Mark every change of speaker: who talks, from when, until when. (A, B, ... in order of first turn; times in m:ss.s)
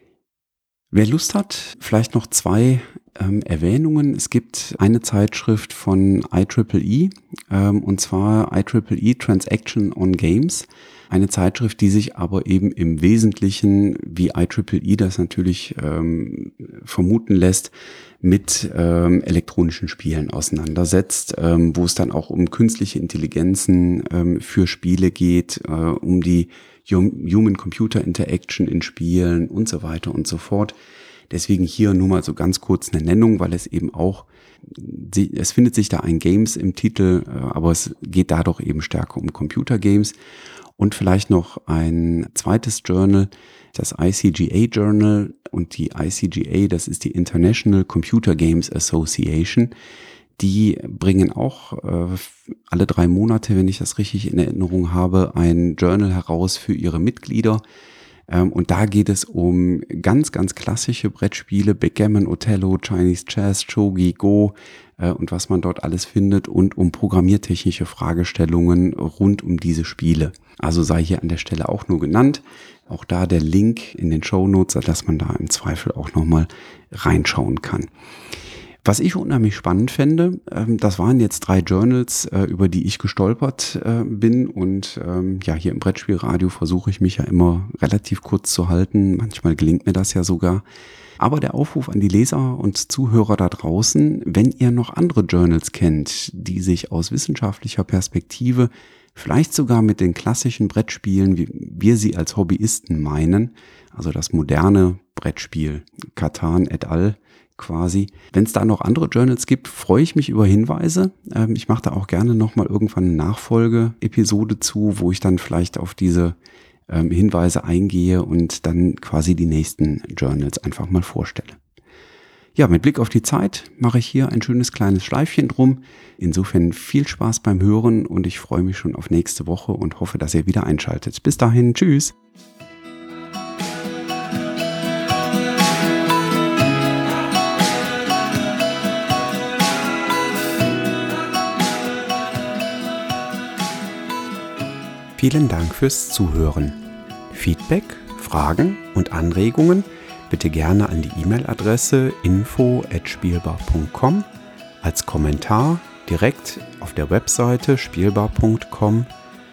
0:00.9-0:30.7 A
0:31.3-0:40.1 A
0:40.8-0:49.7 A
0:50.4-0:57.6 A
0:58.3-1:17.9 A
1:18.8-1:30.6 A
1:31.2-1:56.4 A
1:56.9-2:01.6 A
2:02.6-2:12.1 A
2:25.2-2:34.3 A
2:34.8-2:39.1 A